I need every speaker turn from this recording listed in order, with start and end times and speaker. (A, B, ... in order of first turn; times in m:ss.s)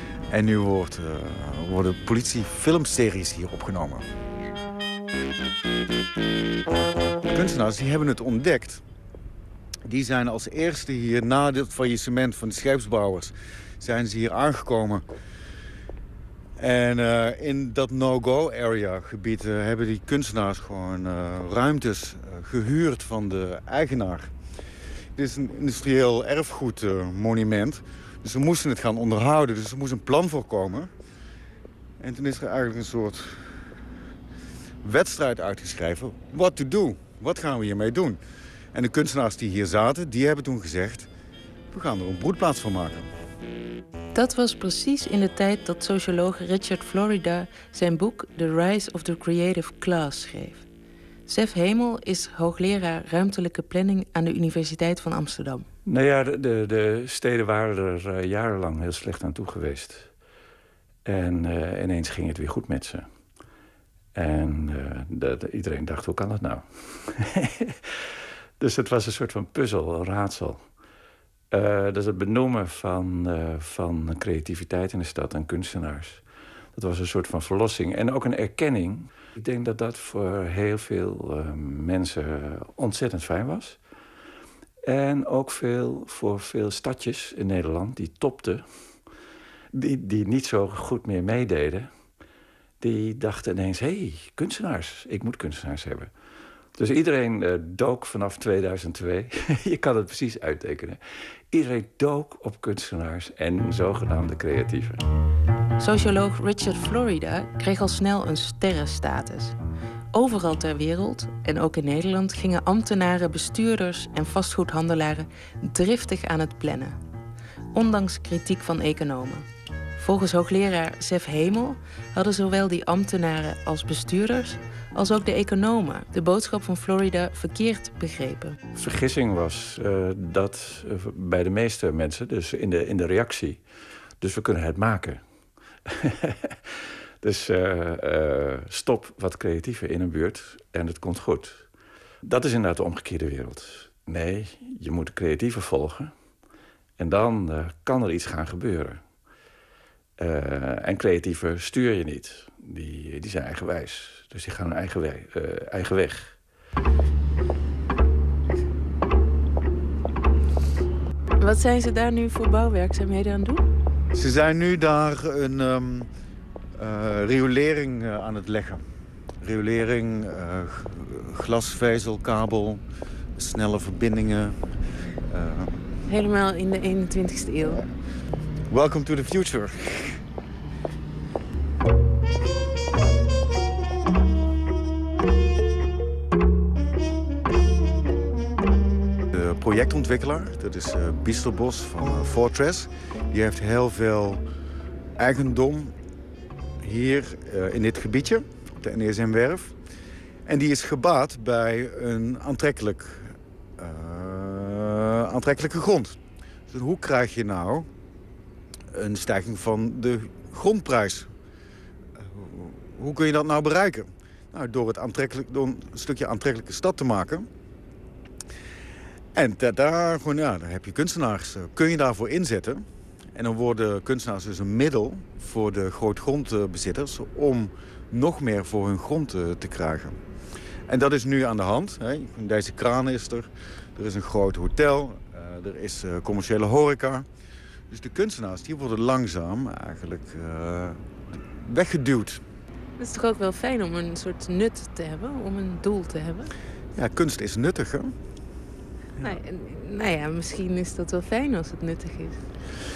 0:00.3-0:04.0 A
0:07.3-0:08.8 A
0:09.8-0:15.0 A
0:16.6-0:24.3 A
0:25.2-0:30.9 A
0:32.0-0:33.5 A
0:34.8-0:38.2 A
0:38.7-0:41.1 A
0:41.7-0:43.1 A
0:44.1-0:50.6 B
0:51.3-0:55.7 B
0:55.8-1:00.1 C
1:01.0-1:03.1 C
1:04.1-1:10.7 C
1:11.5-1:23.8 C
1:24.8-1:29.0 C
1:29.7-1:31.9 C
1:32.8-1:36.1 C
1:36.7-1:45.0 C
1:45.8-1:49.5 B
1:50.1-1:57.0 B
1:57.7-1:59.4 B
2:00.0-2:08.6 B
2:08.7-2:15.3 C
2:15.8-2:21.7 C
2:22.2-2:26.1 C
2:27.0-2:29.0 C
2:30.2-2:36.4 C
2:41.4-2:43.6 B
2:44.1-2:46.1 A
2:46.8-2:48.8 A
2:49.4-2:52.8 A
2:53.4-2:55.8 A
2:56.0-2:57.8 B
2:58.7-3:00.2 A
3:09.3-3:14.4 A
3:15.2-3:15.9 A
3:16.8-3:19.8 A
3:20.4-3:26.2 A
3:26.7-3:27.9 A
3:28.9-3:31.3 A
3:32.2-3:37.5 A
3:39.3-3:50.2 A
3:50.9-3:57.3 A
3:57.9-4:02.4 A
4:03.0-4:06.5 B
4:06.9-4:08.1 A
4:09.2-4:12.4 B